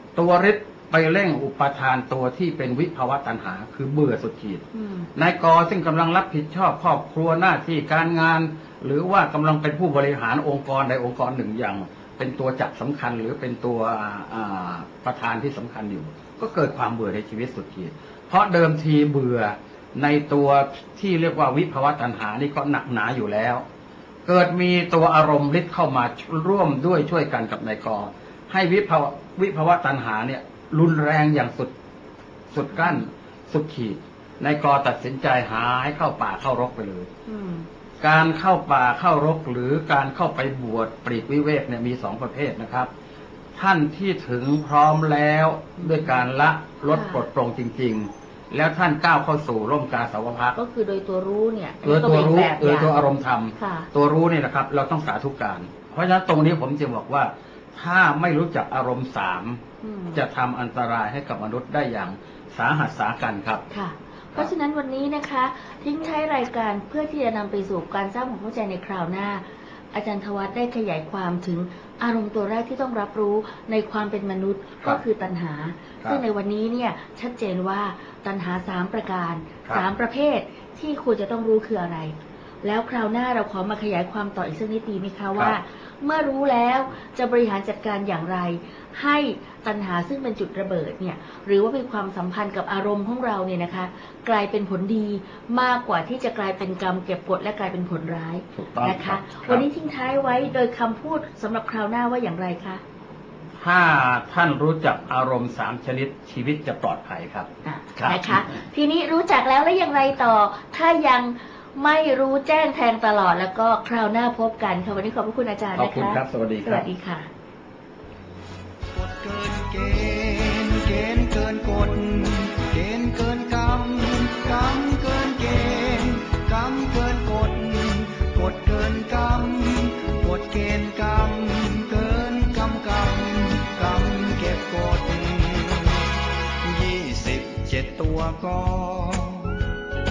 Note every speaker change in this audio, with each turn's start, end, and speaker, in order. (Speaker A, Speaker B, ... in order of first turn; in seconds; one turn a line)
Speaker A: 0.1-23.6
Speaker B: 4.7-5.1
Speaker A: 24.2-31.7
Speaker A: 32.5-37.1
Speaker B: 32.8-33.0
Speaker B: 37.3-37.7
Speaker A: 38.0-42.9
Speaker A: 43.5-50.5
Speaker B: 45.8-46.1
Speaker B: 46.9-47.2
Speaker B: 50.5-52.9
Speaker A: 51.8-59.6
Speaker B: 53.6-53.9
Speaker B: 59.8-60.2
Speaker A: 60.1-63.6
Speaker B: 63.7-102.8
Speaker A: 98.5-99.7
Speaker A: 103.6-108.5
Speaker B: 107.6-117.3
Speaker A: 115.8-116.9
Speaker C: 118.9-139.6